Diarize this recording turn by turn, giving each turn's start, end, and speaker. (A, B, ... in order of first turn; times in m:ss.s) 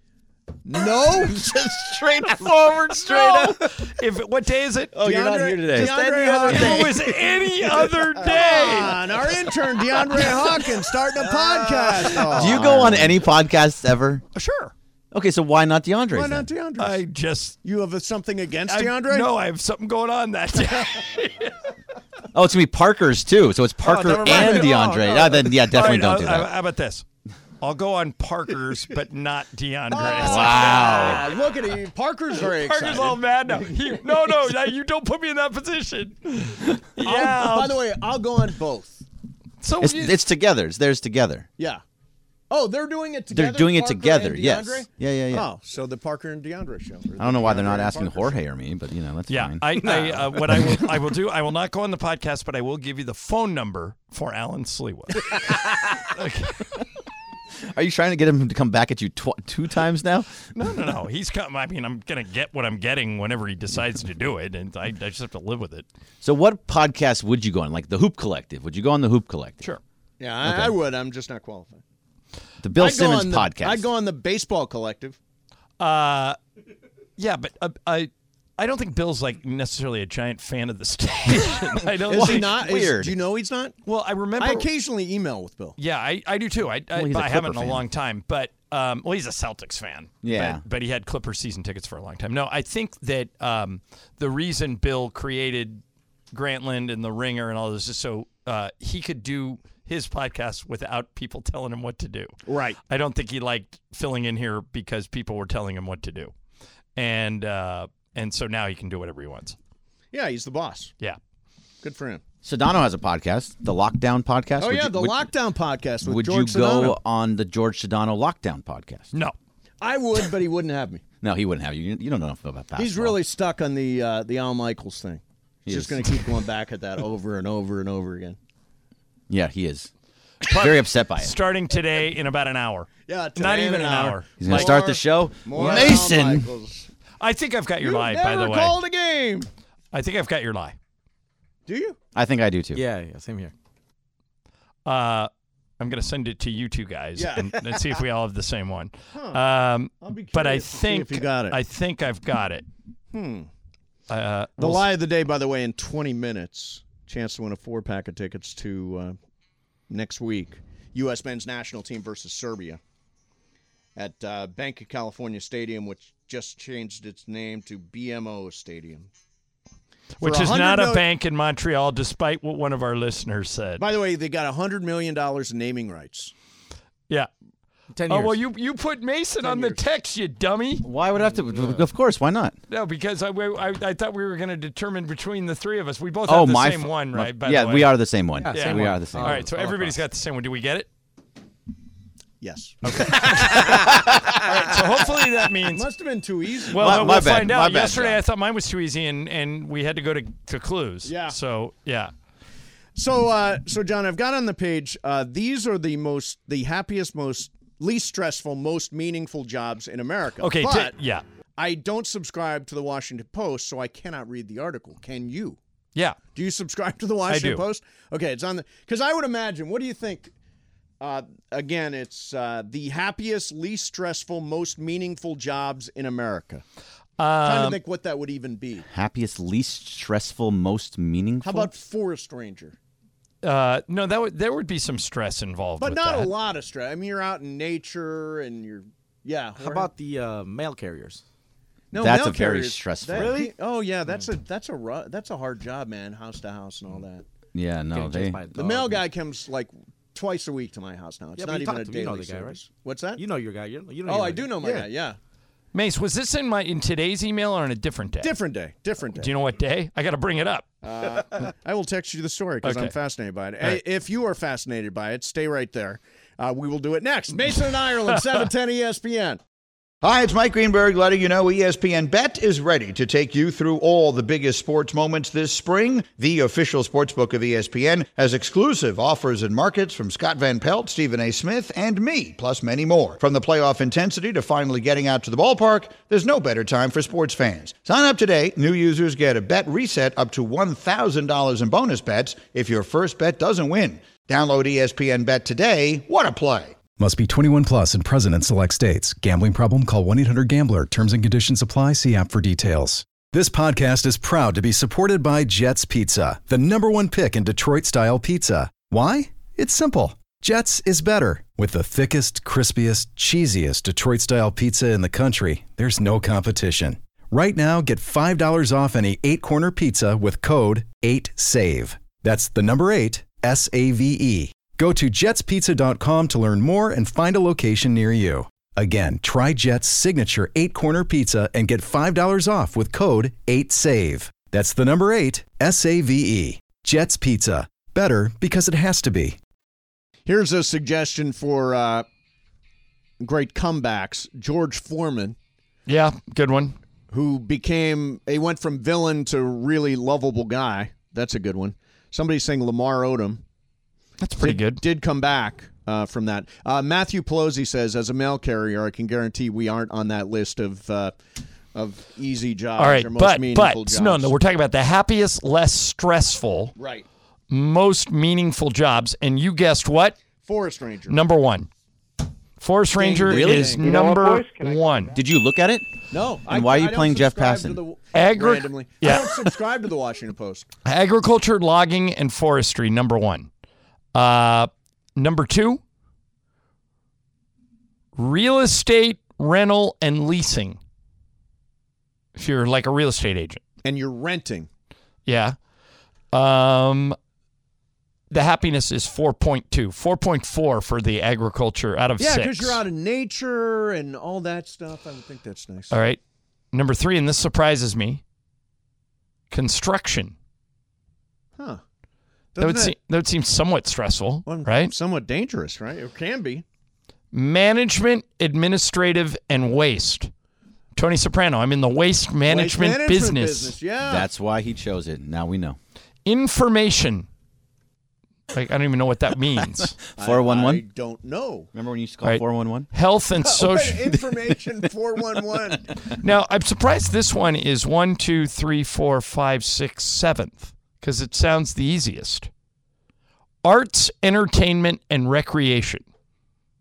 0:00.6-0:01.4 A
0:01.3-0:03.6 B
0:03.1-0:04.9 C
0:04.9-0:06.9 B
0:05.0-0:13.2 A
0:06.5-0:09.0 C
0:12.3-0:14.2 B
0:14.4-0:14.7 C
0:15.1-0:16.5 B
0:16.1-0:17.0 A
0:16.8-0:17.6 C
0:17.6-0:19.3 A
0:18.7-0:21.5 C
0:22.3-0:26.5 B
0:23.8-0:27.0 C
0:24.0-0:24.9 D
0:24.3-0:24.6 A
0:27.6-0:31.2 C
0:29.9-0:34.0 A
0:30.0-0:31.3 B
0:32.4-0:37.8 C
0:37.0-0:39.0 A
0:39.6-0:40.2 C
0:39.8-0:41.5 B
0:41.6-0:41.8 A
0:42.5-0:48.4 A
0:43.3-0:45.5 B
0:47.2-0:49.9 B
0:49.3-0:56.7 C
0:49.8-0:50.3 D
0:57.7-1:00.4 B
1:00.6-1:05.8 C
1:06.2-1:09.6 B
1:10.2-1:11.8 A
1:10.4-1:10.8 B
1:12.6-1:13.9 B
1:12.8-1:15.2 A
1:15.8-1:16.4 C
1:17.2-1:22.6 C
1:22.0-1:23.2 B
1:22.1-1:23.8 A
1:23.9-1:24.7 C
1:24.4-1:25.8 A
1:25.8-1:42.4 C
1:27.0-1:27.8 B
1:30.2-1:30.6 B
1:42.5-1:42.8 A
1:42.9-1:46.3 C
1:47.0-1:49.6 C
1:50.1-1:50.9 A
1:51.8-1:52.2 A
1:52.4-1:55.3 B
1:54.6-1:57.0 A
1:56.0-1:59.1 B
1:59.8-2:01.0 A
2:01.2-2:03.2 B
2:02.8-2:08.4 A
2:05.7-2:06.2 B
2:09.3-2:09.9 B
2:10.4-2:11.3 B
2:10.5-2:14.6 C
2:13.1-2:16.9 A
2:14.4-2:16.5 B
2:17.2-2:18.8 C
2:17.8-2:19.5 A
2:19.9-2:20.8 C
2:21.7-2:22.0 A
2:22.1-2:22.8 B
2:22.7-2:23.5 D
2:24.9-2:32.6 C
2:27.2-2:27.7 A
2:29.1-2:29.4 A
2:30.0-2:31.6 A
2:33.1-2:33.5 A
2:34.1-2:34.9 C
2:34.6-2:39.2 A
2:39.9-2:42.8 A
2:44.0-2:49.1 A
2:50.2-2:53.8 C
2:50.2-2:51.0 A
2:53.8-2:56.3 A
2:57.9-2:58.4 D
2:58.1-3:00.8 C
2:59.4-2:59.8 D
3:00.8-3:02.6 B
3:01.1-3:01.8 D
3:02.7-3:07.9 C
3:06.3-3:09.4 B
3:08.4-3:10.0 D
3:08.5-3:10.9 C
3:12.4-3:17.2 A
3:12.8-3:15.9 C
3:14.0-3:14.4 B
3:16.7-3:22.1 C
3:16.8-3:18.2 B
3:21.0-3:21.4 A
3:23.0-3:30.9 A
3:30.4-3:31.2 C
3:31.6-3:35.6 A
3:36.3-3:40.3 A
3:37.3-3:37.6 C
3:41.0-3:46.6 A
3:47.2-3:47.8 C
3:47.4-3:48.9 A
3:48.9-3:51.7 B
3:51.4-3:52.8 A
3:53.4-3:56.3 C
3:55.8-3:59.9 A
3:59.6-4:01.2 D
4:01.9-4:07.2 A
4:02.0-4:03.4 B
4:03.1-4:03.5 D
4:07.5-4:08.4 B
4:07.9-4:09.0 D
4:08.5-4:13.2 A
4:11.4-4:12.6 D
4:13.2-4:14.9 D
4:14.1-4:15.2 A
4:15.7-4:18.3 C
4:18.2-4:19.3 A
4:19.2-4:20.7 C
4:20.8-4:29.4 A
4:22.6-4:22.9 C
4:30.0-4:56.8 E
4:57.0-5:39.4 F
5:40.3-5:42.1 A
5:43.2-5:45.4 A
5:45.9-5:46.8 C
5:47.1-5:53.4 A
5:54.2-5:54.8 C
5:54.4-6:01.2 A
6:01.8-6:04.3 A
6:02.8-6:06.7 C
6:06.8-6:07.1 A
6:07.5-6:10.2 C
6:10.4-6:11.2 A
6:11.1-6:11.7 C
6:12.6-6:15.1 C
6:13.0-6:14.0 A
6:13.3-6:13.9 B
6:15.1-6:15.9 B
6:16.1-6:20.7 A
6:16.5-6:17.8 B
6:18.1-6:19.4 C
6:20.8-6:23.5 C
6:24.1-6:25.8 C
6:28.2-6:30.8 C
6:32.4-6:33.6 C
6:33.8-6:34.7 A
6:35.3-6:35.6 C
6:36.3-6:37.2 C
6:38.3-6:42.8 C
6:42.2-6:45.9 A
6:45.9-6:46.2 C
6:46.7-6:48.2 C
6:49.5-6:50.3 C
6:52.6-6:52.9 A
6:52.6-6:54.9 C
6:54.4-6:56.6 A
6:57.3-7:00.3 C
7:00.9-7:03.8 C
7:02.5-7:04.3 A
7:04.0-7:05.8 B
7:06.3-7:07.3 C
7:08.5-7:10.0 C
7:10.2-7:10.8 B
7:10.2-7:11.7 A
7:11.7-7:12.9 B
7:12.2-7:14.2 C
7:13.4-7:15.9 A
7:16.2-7:22.5 C
7:23.6-7:26.0 C